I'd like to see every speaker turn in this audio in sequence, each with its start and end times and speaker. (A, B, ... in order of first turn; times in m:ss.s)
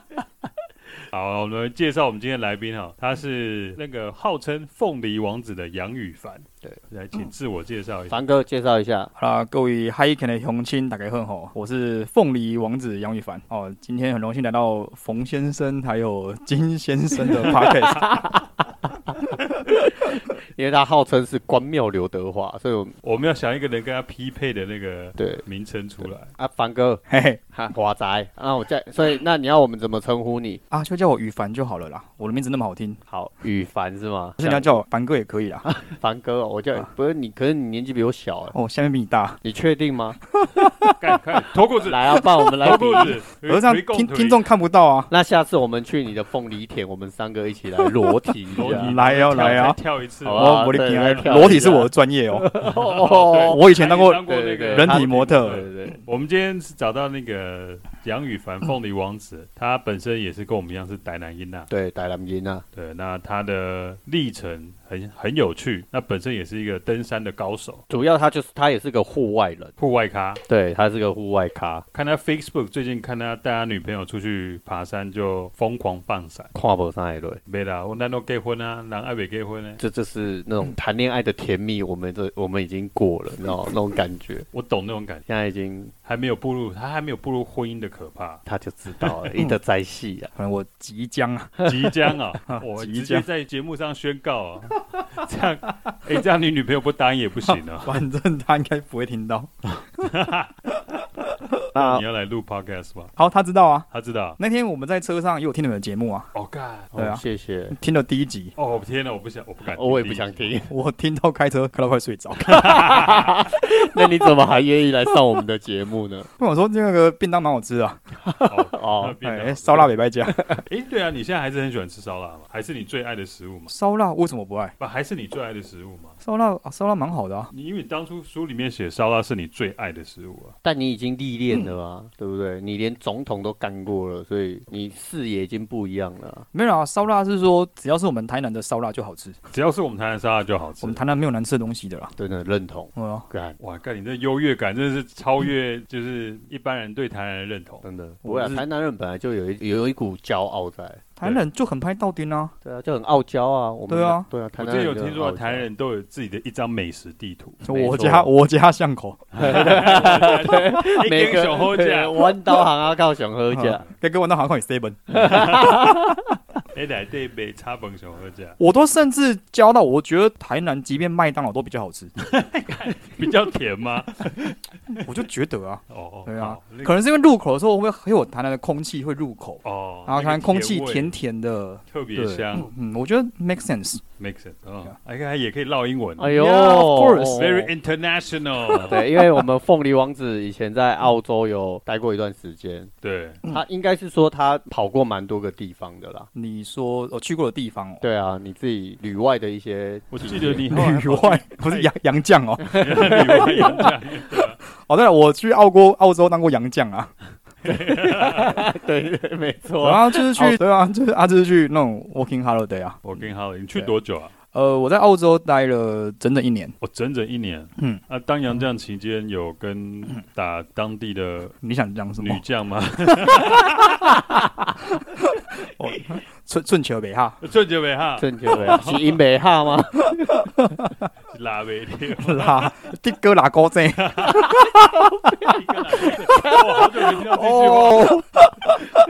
0:01.1-0:08.2 A
0:08.1-0:09.1 B
0:09.2-0:18.1 C
0:17.3-0:23.0 B
0:23.0-0:26.3 A
0:25.2-0:25.4 B
0:26.0-0:27.0 B
0:27.1-0:27.4 C
0:27.5-0:30.6 B
0:30.7-0:33.0 C
0:33.1-0:34.8 B
0:34.4-0:35.7 C
0:35.6-0:38.6 B
0:38.5-0:39.4 C
0:39.4-0:40.2 B
0:40.4-0:41.0 C
0:41.0-0:44.4 A
0:41.8-0:43.2 B
0:43.4-0:45.1 C
0:45.1-0:48.9 B
0:48.6-0:51.6 A
0:48.7-0:49.8 C
0:50.2-0:56.0 B
0:50.3-0:52.6 C
0:52.6-1:01.7 A
0:53.3-0:55.6 C
1:01.7-1:02.6 B
1:02.7-1:07.8 A
1:07.9-1:09.7 B
1:09.8-1:10.4 A
1:10.5-1:11.8 B
1:11.9-1:16.5 A
1:16.5-1:17.4 B
1:17.5-1:19.8 A
1:19.8-1:24.5 B
1:24.5-1:25.2 A
1:25.3-1:25.9 B
1:26.0-1:28.4 A
1:28.4-1:30.3 B
1:29.0-1:29.3 A
1:30.4-1:31.9 C
1:31.6-1:38.0 A
1:32.4-1:33.2 C
1:37.5-1:40.1 C
1:39.8-1:40.5 A
1:40.7-1:41.6 C
1:41.7-1:43.1 A
1:41.7-1:42.0 B
1:43.2-1:43.9 C
1:43.9-1:44.4 A
1:44.4-1:46.3 C
1:46.3-1:46.9 A
1:46.9-1:47.8 B
1:47.0-1:48.5 C
1:48.6-1:50.5 A
1:49.7-1:50.7 B
1:50.7-1:53.0 C
1:52.5-1:53.4 A
1:52.5-1:56.3 B
1:56.4-1:58.0 C
1:58.2-1:59.2 B
1:58.5-1:59.9 A
1:59.2-2:00.6 C
2:00.5-2:03.7 A
2:03.7-2:04.7 C
2:04.8-2:06.2 A
2:06.2-2:07.5 C
2:07.5-2:10.6 A
2:10.6-2:16.5 B
2:16.5-2:19.4 C
2:19.5-2:21.0 A
2:20.8-2:22.1 C
2:22.2-2:23.6 B
2:22.9-2:23.3 C
2:23.6-2:27.8 A
2:27.8-2:31.0 B
2:28.2-2:28.6 C
2:31.2-2:32.5 C
2:32.6-2:35.7 B
2:33.9-2:34.3 C
2:34.6-2:37.6 A
2:37.6-2:40.2 C
2:37.7-2:38.3 B
2:39.3-2:42.6 A
2:39.4-2:43.8 B
2:43.5-2:46.1 C
2:45.1-2:46.2 B
2:45.3-2:45.6 A
2:46.7-2:48.6 A
2:48.6-2:52.1 C
2:52.2-2:55.0 A
2:54.9-3:04.0 C
2:55.9-2:57.0 A
2:59.6-3:01.1 A
3:01.9-3:02.7 A
3:04.2-3:06.3 A
3:06.2-3:07.6 B
3:06.2-3:07.7 C
3:07.3-3:09.0 A
3:08.9-3:12.9 B
3:13.0-3:13.4 A
3:13.5-3:16.3 B
3:16.3-3:18.0 C
3:18.0-3:20.6 B
3:20.1-3:21.9 A
3:20.6-3:27.1 C
3:22.7-3:24.6 A
3:22.7-3:23.6 B
3:27.6-3:28.6 A
3:27.6-3:30.6 B
3:29.8-3:33.0 C
3:33.0-3:34.3 A
3:34.5-3:36.8 C
3:36.8-3:41.5 A
3:41.6-3:42.4 C
3:42.2-3:44.1 A
3:43.2-3:44.1 C
3:44.8-3:47.4 C
3:47.4-3:49.2 A
3:48.2-3:50.4 B
3:50.3-3:50.9 C
3:51.3-3:52.8 A
3:52.2-3:54.9 C
3:54.0-3:54.4 A
3:55.4-3:58.2 A
3:56.0-3:58.2 B